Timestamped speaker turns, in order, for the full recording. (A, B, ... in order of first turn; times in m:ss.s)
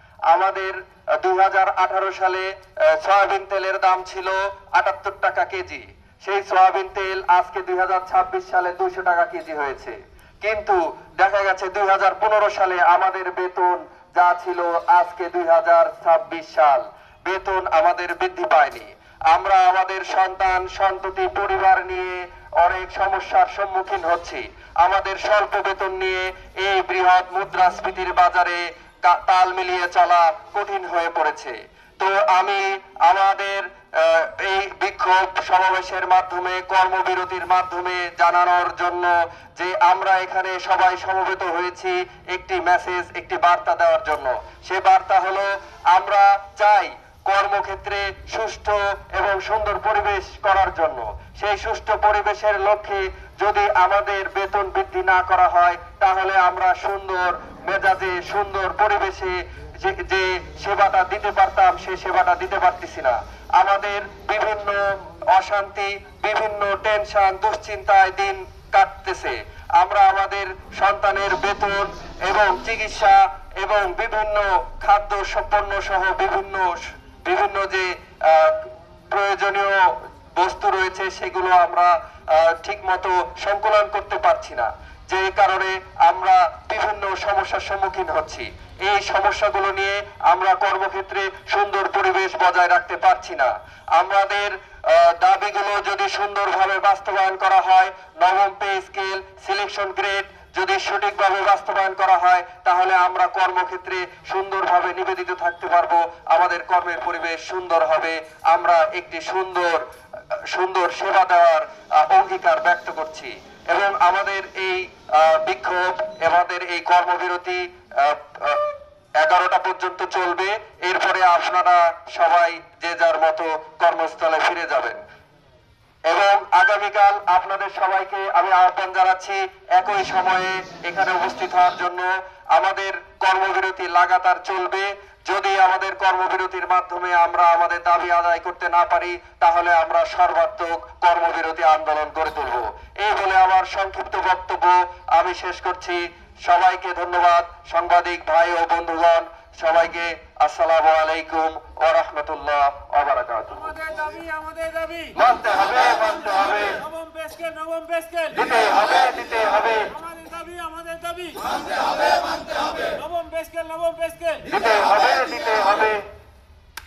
0:00.3-1:19.8 A
1:20.4-1:49.9 A
1:50.5-2:05.0 A
2:06.1-2:33.8 A
2:33.8-2:35.1 B
2:35.1-2:36.8 A
2:36.8-2:38.4 B
2:38.3-2:39.9 A
2:39.9-2:44.4 B
2:44.4-2:46.0 A